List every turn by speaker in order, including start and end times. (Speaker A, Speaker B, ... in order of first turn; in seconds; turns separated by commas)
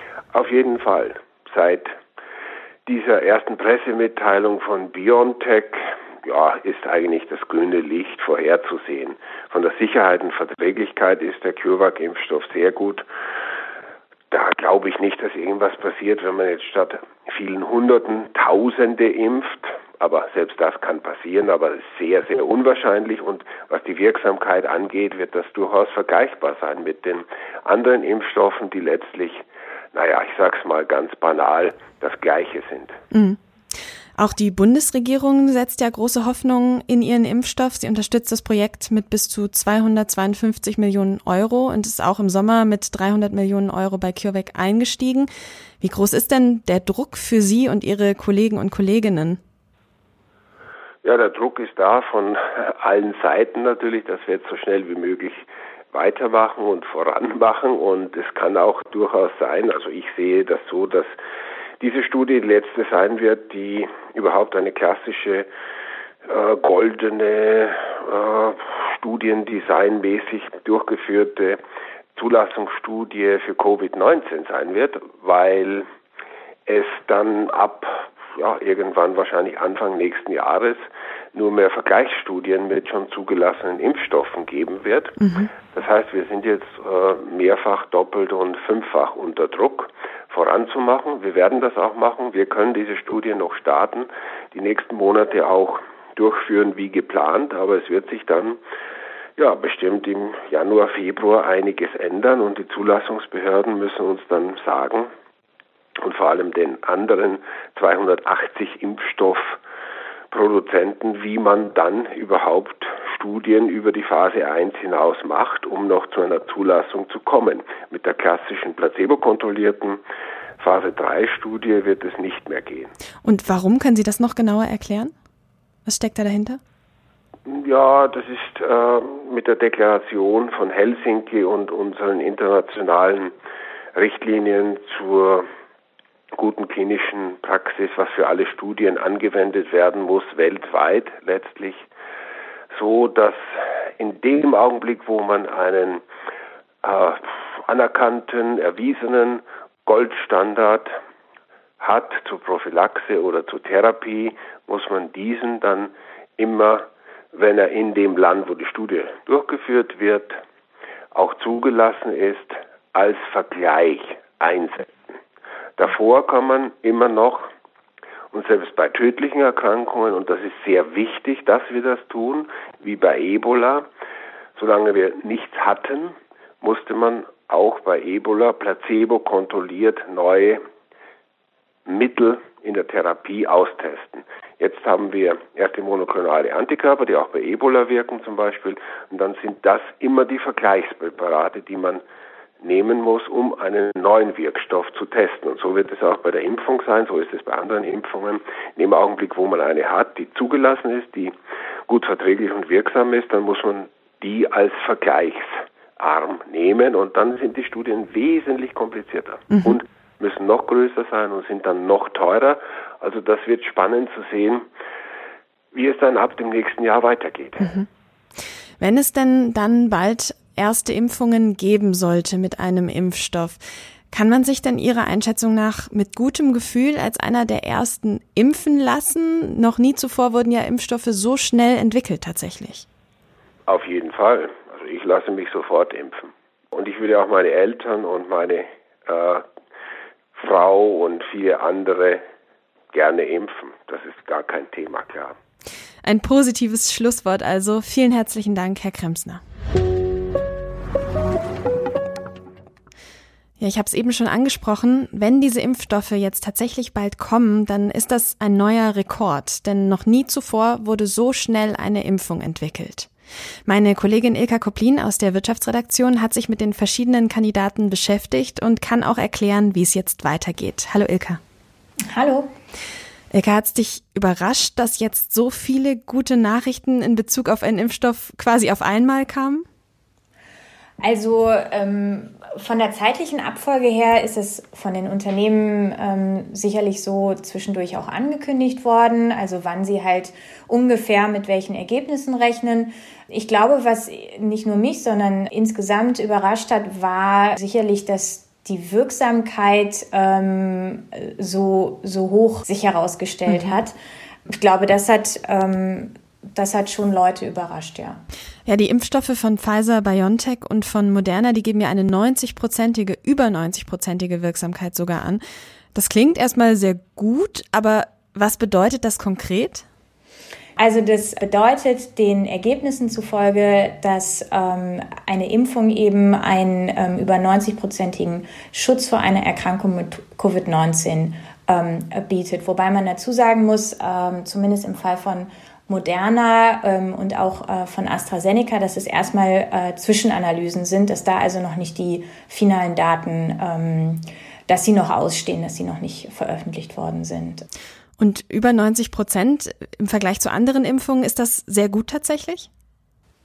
Speaker A: 0.3-1.9, Speaker A: 2.9-13.0, Speaker A: 14.3-33.0, Speaker B: 33.1-33.4, Speaker B: 34.1-45.3, Speaker B: 45.8-49.4, Speaker A: 51.0-61.1, Speaker A: 61.8-65.5, Speaker A: 66.2-71.6, Speaker A: 72.2-75.9, Speaker A: 76.7-80.8, Speaker A: 81.3-85.2, Speaker B: 85.2-85.5, Speaker A: 85.7-98.6, Speaker A: 99.4-105.1, Speaker A: 106.0-109.6, Speaker A: 110.3-120.0, Speaker A: 120.6-122.9, Speaker B: 123.2-125.1, Speaker B: 125.9-126.6, Speaker A: 127.5-133.3, Speaker A: 133.9-135.5, Speaker A: 136.3-141.8, Speaker A: 142.7-146.0, Speaker A: 146.8-150.9, Speaker A: 151.8-160.4, Speaker A: 161.1-164.9, Speaker A: 165.8-167.5, Speaker A: 168.3-173.9, Speaker A: 174.6-180.6, Speaker A: 181.9-192.0, Speaker A: 192.6-201.3, Speaker A: 201.9-214.6, Speaker A: 215.7-217.7, Speaker B: 217.6-217.9, Speaker B: 218.8-223.6, Speaker B: 224.1-232.9, Speaker A: 233.7-239.4, Speaker A: 240.4-242.2, Speaker A: 242.9-245.4, Speaker B: 246.0-249.4, Speaker B: 253.6-263.1, Speaker B: 263.6-271.4, Speaker C: 272.0-272.5, Speaker B: 273.3-279.6, Speaker C: 281.0-303.9, Speaker C: 304.5-308.2, Speaker B: 308.6-315.4, Speaker B: 315.9-319.9, Speaker C: 320.8-347.6, Speaker B: 348.2-352.7